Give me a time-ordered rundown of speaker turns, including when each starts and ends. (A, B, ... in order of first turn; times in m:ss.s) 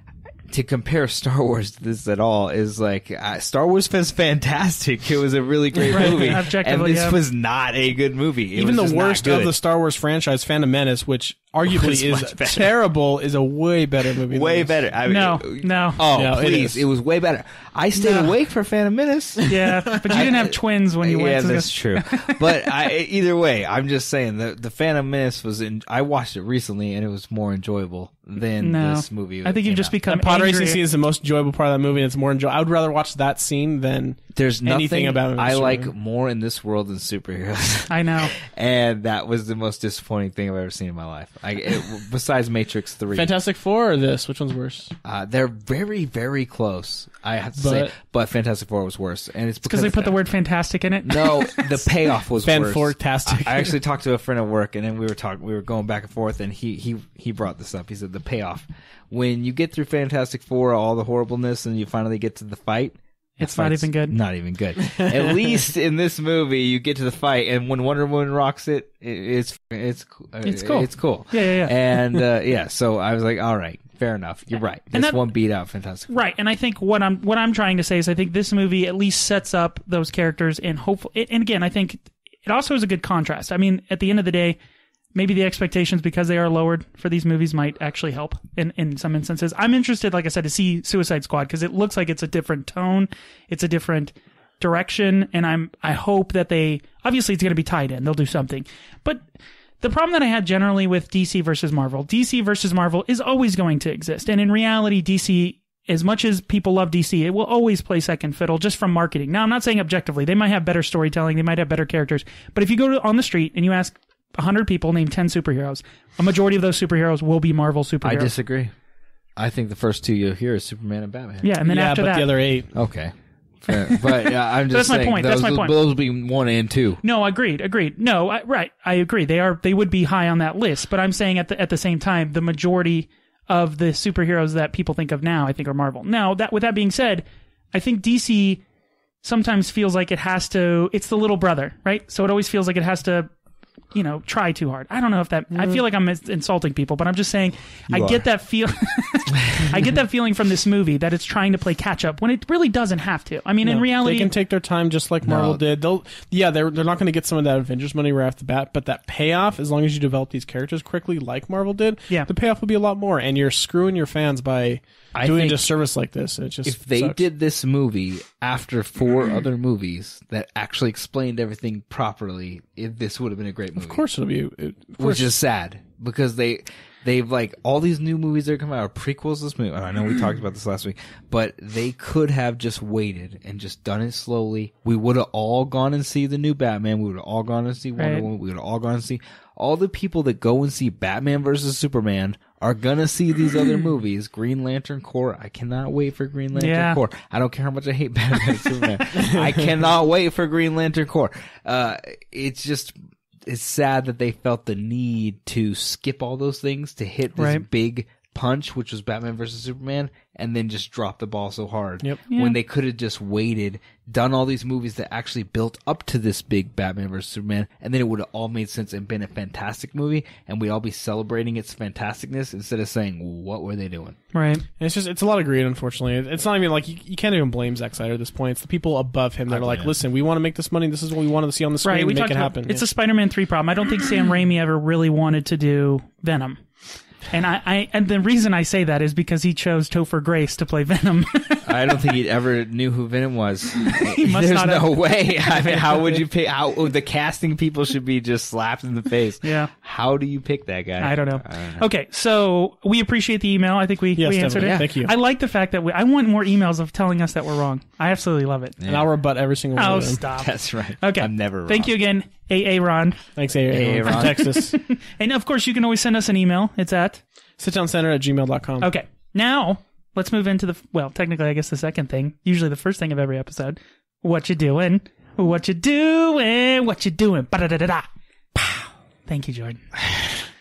0:00.5-0:09.5 A
0:05.9-0:07.2 B
0:08.5-0:14.8 C
0:11.6-0:12.7 A
0:14.3-0:30.0 A
0:15.0-0:16.0 B
0:16.1-0:16.8 C
0:18.0-0:18.3 B
0:19.5-0:22.9 B
0:28.6-0:30.8 B
0:30.1-0:35.9 C
0:34.4-0:43.3 A
0:37.9-0:38.3 B
0:43.1-0:44.9 C
0:45.0-0:50.2 A
0:47.6-0:47.9 C
0:49.6-0:51.9 B
0:51.0-1:16.1 A
0:52.4-0:53.7 C
1:03.4-1:04.2 B
1:10.4-1:11.7 B
1:14.9-1:15.2 B
1:16.1-1:24.6 B
1:25.1-1:39.2 B
1:39.8-1:58.3 B
1:58.0-1:58.7 A
1:59.4-2:01.5 A
2:01.4-2:02.3 B
2:01.6-2:02.7 C
2:02.7-2:07.0 A
2:04.7-2:05.7 B
2:07.0-2:18.6 B
2:19.2-2:23.3 B
2:23.9-2:34.3 B
2:25.5-2:25.8 C
2:27.9-2:28.2 A
2:33.6-2:47.2 C
2:35.2-2:35.6 A
2:45.1-2:45.6 A
2:46.6-2:54.0 A
2:53.8-2:55.3 C
2:55.0-3:22.9 A
3:08.0-3:08.3 B
3:16.5-3:17.0 B
3:23.4-3:44.2 A
3:27.4-3:27.6 B
3:32.3-3:32.6 B
3:44.3-3:44.6 B
3:44.8-3:52.8 C
3:49.5-3:49.9 A
3:51.8-3:56.6 B
3:57.3-4:02.1 B
4:01.6-4:11.9 A
4:03.8-4:06.1 B
4:09.4-4:09.7 B
4:11.0-4:18.8 B
4:14.2-4:15.1 C
4:14.6-4:14.9 A
4:18.8-4:19.1 A
4:18.8-4:20.2 C
4:19.7-4:23.2 B
4:20.3-4:21.9 A
4:23.4-4:24.7 C
4:23.7-4:24.4 A
4:24.1-4:27.2 B
4:27.6-4:28.9 C
4:28.8-4:40.4 B